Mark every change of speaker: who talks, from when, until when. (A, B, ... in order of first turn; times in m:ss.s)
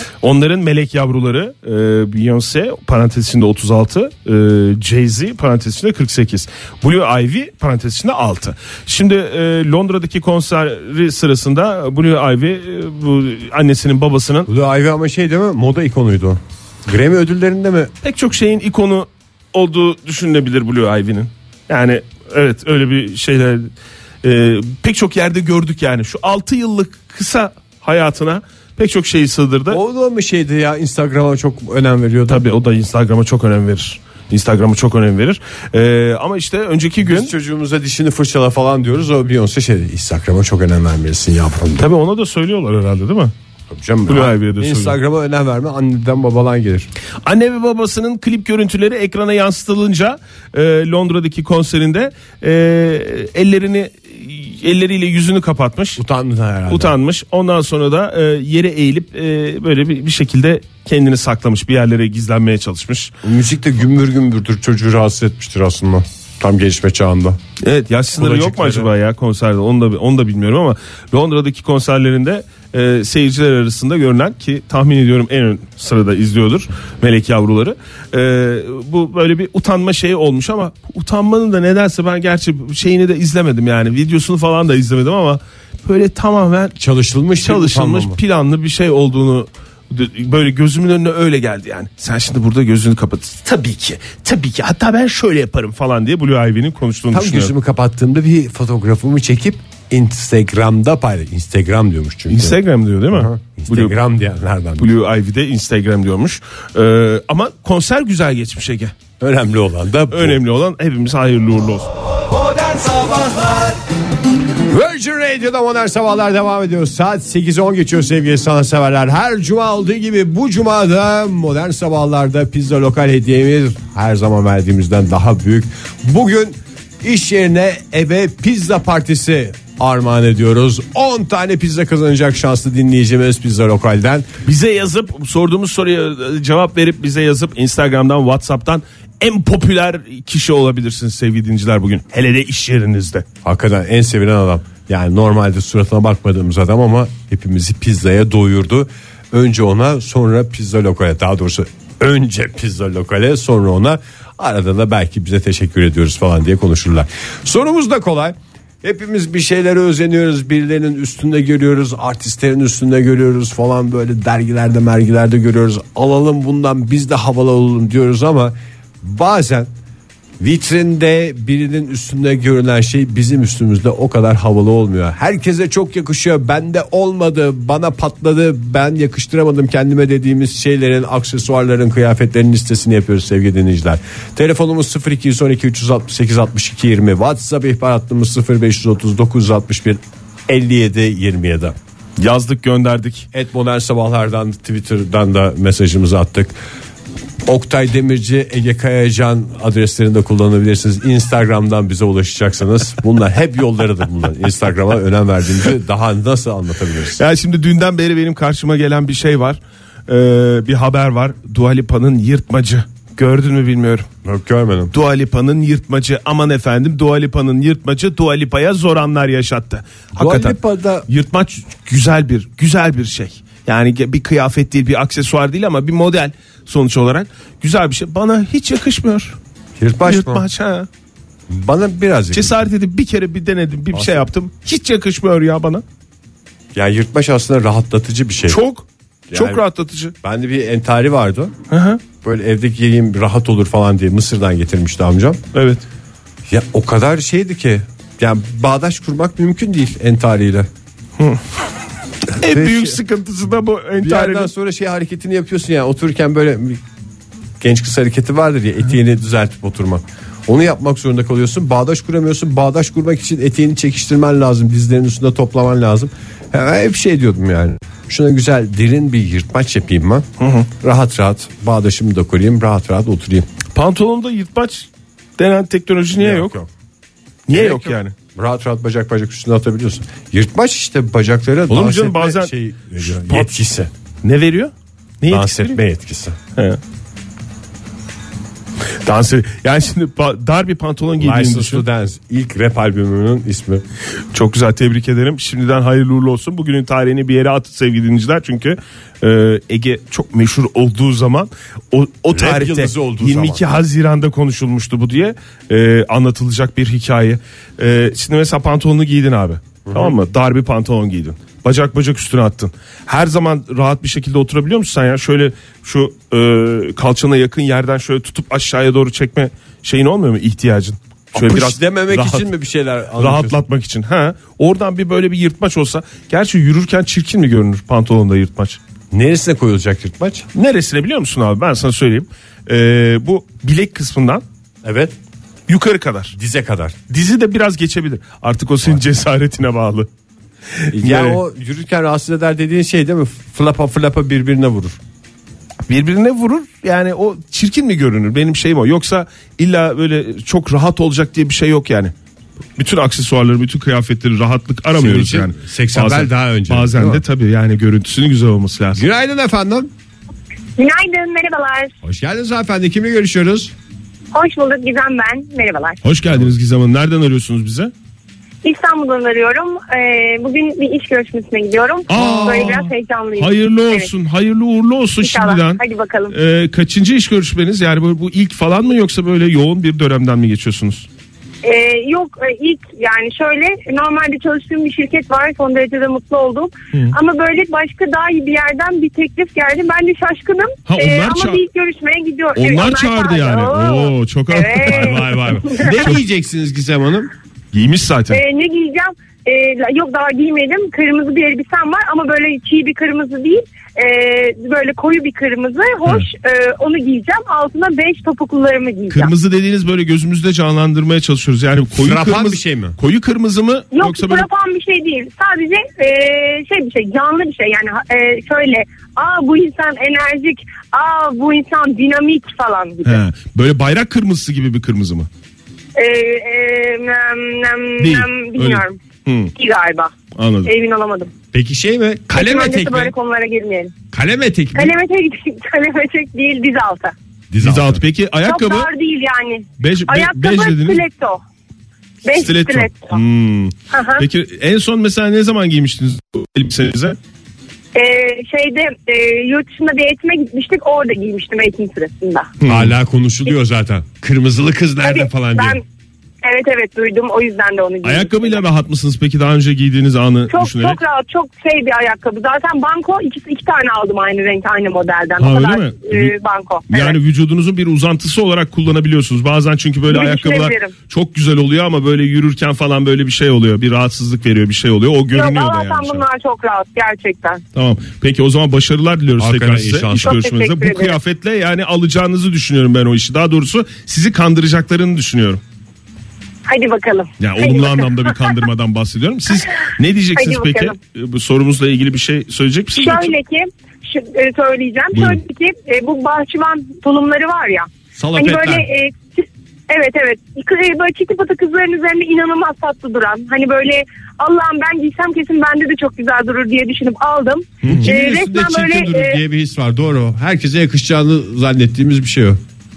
0:00.2-0:14.5 A
0:14.5-0:17.9 B
0:18.0-0:23.7 A
0:24.2-0:29.8 A
0:29.7-0:32.5 B
0:32.3-0:37.3 A
0:37.0-0:41.9 B
0:41.8-0:43.3 A
0:43.7-0:46.9 B
0:44.1-0:45.0 A
0:47.2-0:56.0 A
0:56.0-0:57.0 B
0:56.7-1:03.1 A
1:03.2-1:07.4 B
1:07.6-1:26.8 A
1:08.2-1:08.9 B
1:26.8-1:28.2 B
1:27.4-1:37.5 A
1:37.1-1:42.6 B
1:42.3-1:44.0 A
1:43.1-1:44.9 B
1:44.8-1:49.0 A
1:49.2-1:50.4 B
1:50.1-1:51.9 A
1:52.7-1:53.7 B
1:54.6-2:14.3 B
2:14.4-2:23.3 A
2:23.4-2:49.7 B
2:50.4-3:11.8 B
3:12.2-3:13.3 A
3:13.3-3:16.6 B
3:17.4-3:27.2 B
3:27.2-3:34.1 A
3:34.2-3:34.9 B
3:34.9-3:40.6 A
3:40.2-3:41.1 B
3:41.1-3:49.4 A
3:49.8-3:50.5 B
3:50.1-3:50.9 A
3:51.5-3:52.6 B
3:52.3-3:55.8 A
3:53.9-3:54.3 B
3:56.7-3:58.6 B
3:58.5-4:00.1 A
3:59.3-3:59.6 B
4:00.2-4:01.5 B
4:01.7-4:02.0 A
4:02.2-4:05.4 B
4:05.5-4:05.8 A
4:06.5-4:10.7 B
4:12.3-4:13.0 B
4:12.3-4:14.5 A
4:14.0-4:16.8 B
4:17.6-4:33.5 B
4:30.4-4:30.7 A
4:33.7-4:36.6 A
4:36.2-4:36.7 B
4:37.5-4:38.2 A
4:37.5-4:43.9 B
4:41.7-4:43.5 A
4:44.2-4:45.8 A
4:45.3-4:46.4 B
4:46.6-4:46.8 A
4:49.0-4:51.8 A
4:51.2-4:53.8 B
4:54.3-5:22.5 A
5:02.3-5:03.6 B
5:09.8-5:10.2 B
5:21.3-5:23.6 B
5:23.2-5:28.8 A
5:29.1-5:30.5 B
5:30.5-5:34.4 A
5:34.8-5:35.2 B
5:35.7-5:36.4 A
5:36.3-5:37.0 B
5:37.1-5:40.1 A
5:40.8-5:41.4 A
5:40.9-5:45.0 B
5:45.9-5:52.1 A
5:52.8-5:59.1 A
5:54.9-5:57.2 B
5:58.9-5:59.9 B
6:00.8-6:01.9 C
6:02.0-6:03.7 B
6:04.3-6:06.0 C
6:06.0-6:07.9 A
6:08.6-6:14.1 C
6:12.1-6:21.1 A
6:12.1-6:12.8 B
6:15.2-6:16.3 C
6:21.6-6:36.0 C
6:30.9-6:31.6 A
6:32.6-6:36.2 A
6:34.8-6:37.3 B
6:37.7-6:38.4 A
6:38.3-6:49.3 C
6:49.1-6:54.5 A
6:51.9-6:53.0 B
6:53.9-7:03.2 C
7:03.0-7:05.3 A
7:06.0-7:09.0 C
7:08.0-7:09.5 A
7:09.6-7:10.1 C
7:10.4-7:10.7 A
7:10.6-7:11.3 C
7:11.5-7:13.1 B
7:12.3-7:13.9 C
7:14.1-7:15.0 B
7:14.8-7:17.1 C
7:17.5-7:18.0 B
7:17.6-7:18.9 A
7:18.4-7:21.4 C
7:19.8-7:21.0 A
7:22.2-7:23.2 C
7:22.3-7:27.2 A
7:23.9-7:24.2 C
7:28.0-7:32.5 C
7:32.6-7:33.0 A
7:32.6-7:35.8 B
7:35.0-7:35.8 C
7:36.4-7:38.6 C
7:38.0-7:41.0 A
7:40.5-7:47.2 C
7:45.4-7:46.4 A
7:46.9-7:56.2 A
7:50.1-7:50.9 C
7:55.3-7:57.6 C
7:57.8-8:05.6 A
7:59.4-8:00.4 B
8:00.2-8:01.2 C
8:06.7-8:08.6 C
8:07.4-8:13.3 A
8:10.4-8:11.0 C
8:13.0-8:29.4 C
8:15.1-8:15.4 A
8:18.2-8:18.9 B
8:27.8-8:28.1 A
8:27.9-8:32.6 B